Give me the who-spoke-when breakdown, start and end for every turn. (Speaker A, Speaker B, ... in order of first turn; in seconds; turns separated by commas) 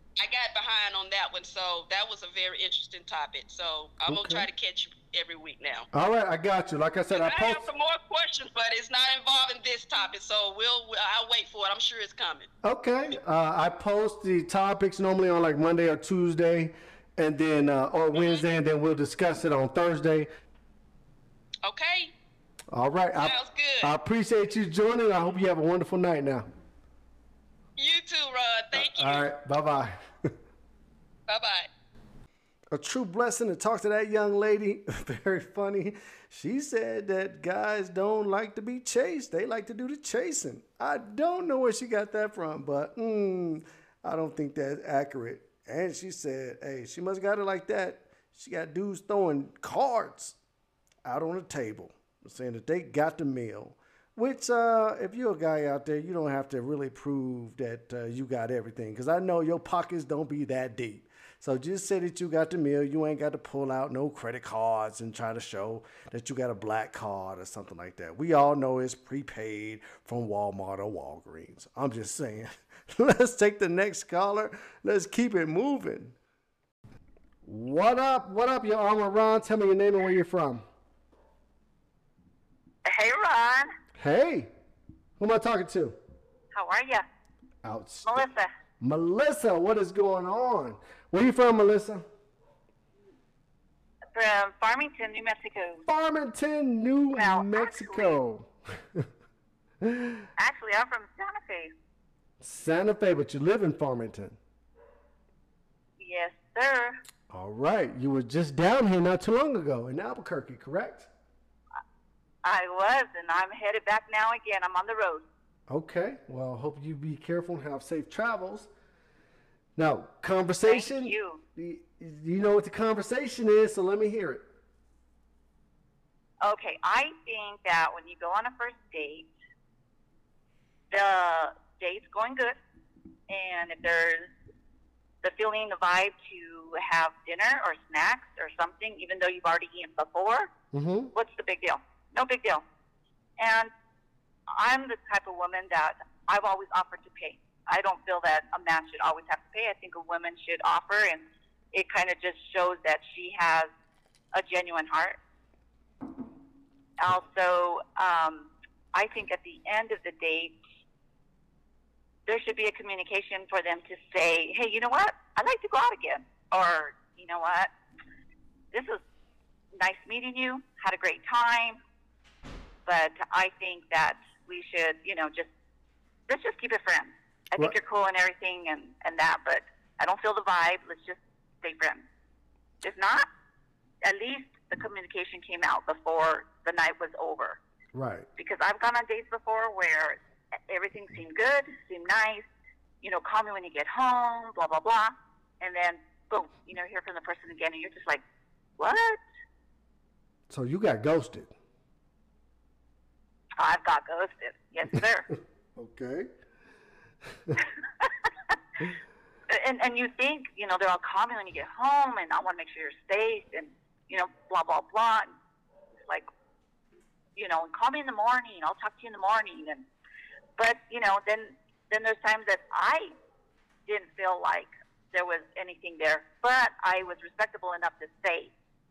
Speaker A: 0.2-5.9, Speaker B: 4.0-4.5, Speaker B: 5.9-7.7, Speaker A: 7.1-12.5, Speaker B: 12.6-20.3, Speaker A: 21.6-22.1, Speaker B: 22.7-26.5, Speaker A: 23.2-23.9, Speaker A: 27.8-29.3, Speaker B: 28.7-30.0, Speaker A: 31.3-31.7, Speaker B: 32.7-50.4, Speaker B: 51.0-76.1, Speaker B: 77.4-80.6, Speaker C: 82.8-83.7, Speaker B: 84.0-84.5, Speaker B: 85.2-86.0, Speaker C: 86.5-87.0, Speaker B: 87.6-88.3, Speaker C: 88.0-88.5, Speaker B: 88.8-92.0, Speaker C: 94.1-95.8, Speaker B: 95.8-99.1, Speaker C: 97.2-98.2, Speaker B: 99.8-100.2, Speaker C: 100.4-101.7, Speaker B: 102.4-104.4, Speaker C: 106.0-106.9, Speaker B: 107.3-111.1, Speaker C: 112.4-115.2, Speaker B: 115.7-118.7, Speaker B: 119.8-124.5, Speaker C: 120.7-121.4, Speaker C: 126.4-129.3, Speaker C: 130.9-132.6, Speaker C: 133.3-134.3, Speaker C: 135.2-140.5, Speaker B: 140.7-141.1, Speaker C: 141.1-142.6, Speaker C: 143.4-143.7, Speaker C: 144.5-153.7, Speaker C: 154.3-155.2, Speaker C: 157.0-160.6, Speaker C: 162.2-167.7, Speaker C: 168.7-169.0, Speaker C: 169.8-171.8, Speaker C: 172.8-175.5, Speaker C: 176.3-182.1, Speaker C: 182.8-183.3, Speaker C: 184.0-187.6, Speaker B: 187.9-188.3, Speaker C: 188.4-192.4, Speaker C: 193.0-198.2, Speaker C: 198.8-199.2, Speaker B: 200.5-201.5, Speaker C: 203.6-205.2, Speaker B: 205.8-206.3, Speaker C: 209.5-215.3, Speaker C: 217.3-219.9, Speaker C: 220.6-223.1, Speaker C: 223.9-228.5